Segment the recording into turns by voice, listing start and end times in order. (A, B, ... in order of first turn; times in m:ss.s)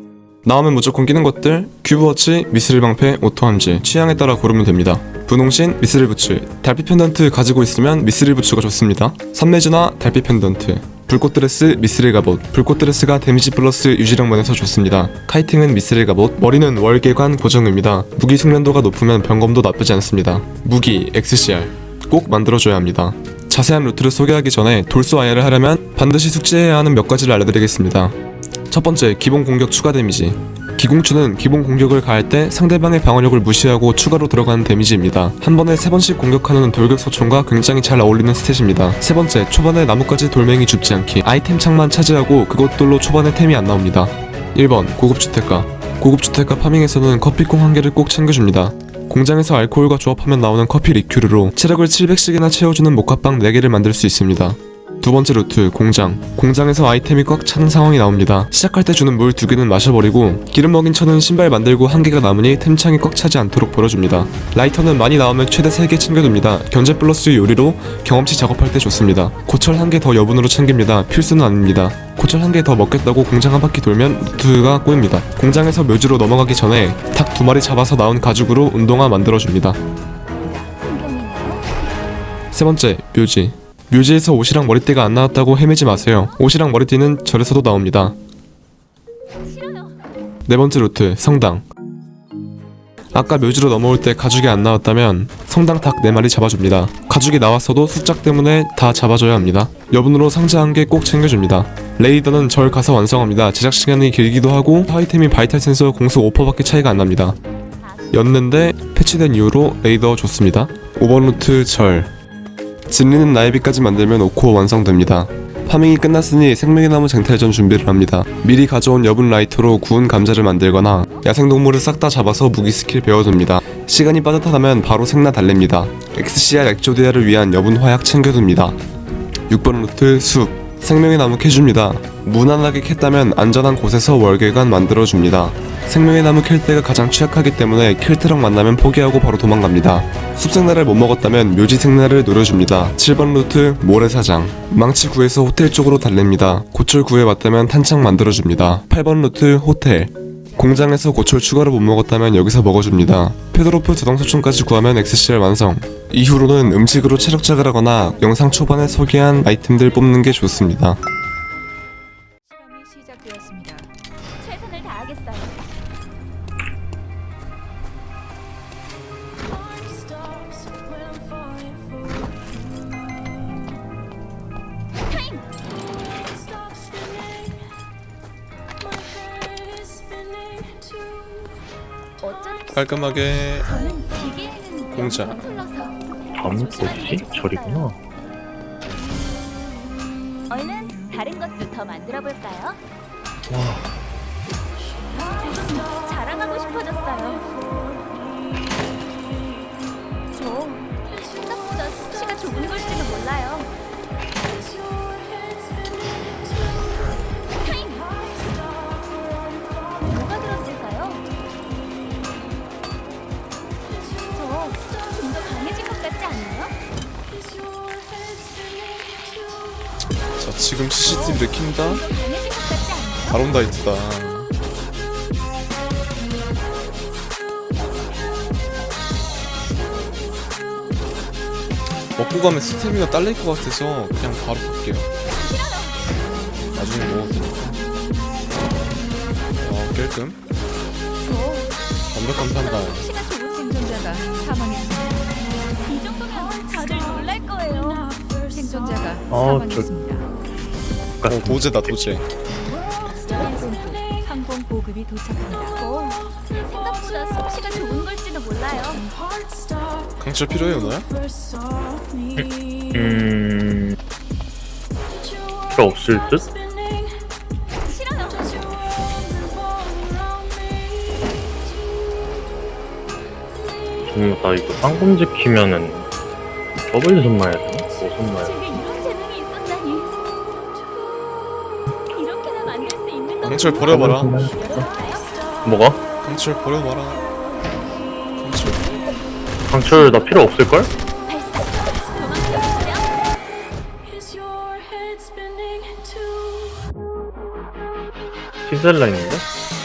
0:00.4-0:28.2 A
0:28.7-1:19.8 A
1:20.4-1:21.9 B
1:22.5-1:28.2 A
1:25.9-1:26.4 B
1:29.4-1:30.0 B
1:30.5-1:31.6 A
1:33.1-1:47.4 A
1:47.8-1:48.3 B
1:48.1-1:52.1 A
1:52.9-2:08.8 A
2:00.9-2:01.3 B
2:09.5-2:41.0 A
2:30.5-2:31.0 C
2:37.8-2:40.3 C
2:42.5-2:43.9 C
2:44.4-2:45.6 B
2:55.1-2:55.5 B
3:02.2-3:08.0 B
3:02.7-3:03.7 A
3:04.9-3:05.4 A
3:06.3-3:08.0 D
3:10.5-3:12.8 B
3:13.5-3:13.9 D
3:15.4-3:17.5 B
3:20.3-3:23.7 B
3:27.6-3:28.2 B
3:30.0-3:31.2 B
3:34.3-3:36.8 B
3:40.4-3:42.0 A
3:41.0-3:43.4 B
3:43.3-3:44.5 A
3:52.2-3:55.1 A
3:55.3-3:56.0 B
3:56.8-3:57.8 A
3:59.6-4:00.4 A
4:01.2-4:01.7 B
4:02.1-4:03.1 A
4:02.3-4:03.7 B
4:03.5-4:05.2 C
4:05.8-4:08.1 B
4:08.5-4:10.3 C
4:09.3-4:09.9 D
4:11.2-4:11.7 D
4:11.3-4:12.3 A
4:13.3-4:15.8 C
4:15.8-4:19.1 B
4:20.2-4:21.1 A
4:22.4-4:24.0 D
4:25.7-4:26.5 D
4:27.8-4:28.8 B
4:34.1-4:36.1 D
4:36.9-4:38.6 D
4:38.4-4:40.1 B
4:42.1-4:45.3 B
4:43.4-4:44.4 A
4:43.8-4:44.9 D
4:45.6-4:46.0 D
4:46.2-4:47.2 A
4:48.4-4:48.8 A
4:49.7-4:50.9 D
4:49.9-4:50.3 B
4:51.2-4:53.2 B
4:58.7-4:59.4 D